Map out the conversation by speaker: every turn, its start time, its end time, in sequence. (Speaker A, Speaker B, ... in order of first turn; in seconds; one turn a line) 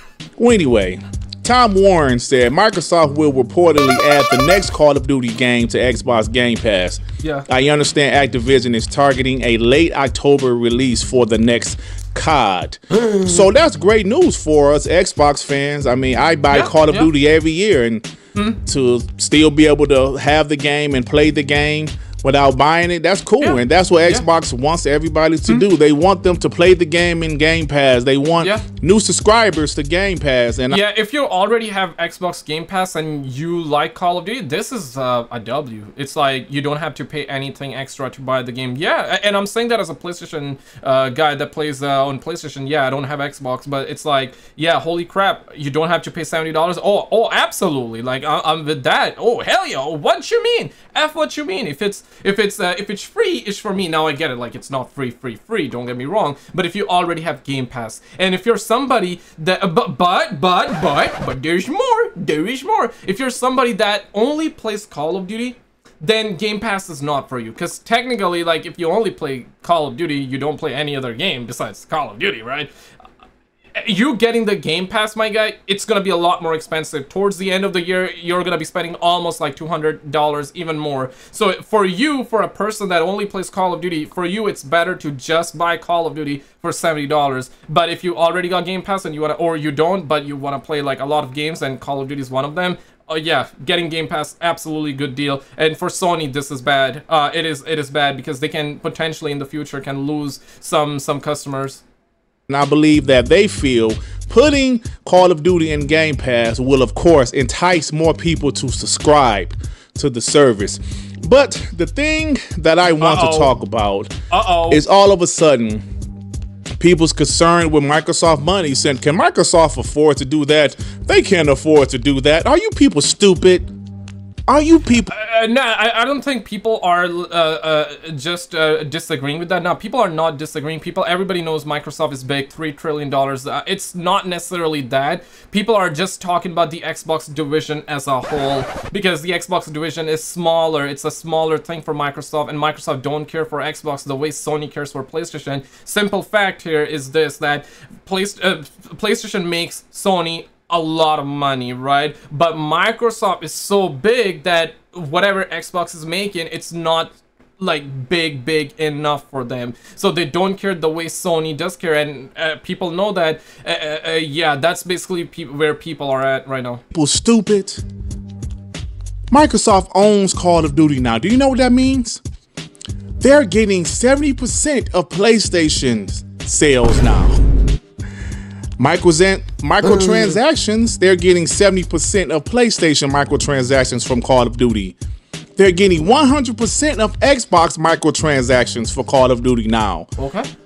Speaker A: 0.4-30.8
Speaker B: 7.2-7.5
Speaker B: 16.5-17.1
Speaker B: 23.4-24.3
Speaker B: 30.7-72.7
Speaker B: 73.8-101.8
Speaker A: 102.5-114.1
Speaker B: 113.0-113.5
Speaker B: 114.3-114.8
Speaker A: 114.7-115.8
Speaker A: 116.8-123.7
Speaker A: 124.5-125.1
Speaker B: 125.1-166.8
Speaker A: 166.9-167.8
Speaker A: 169.3-172.2
Speaker A: 173.2-177.4
Speaker A: 178.8-185.0
Speaker A: 185.6-190.1
Speaker B: 190.2-190.5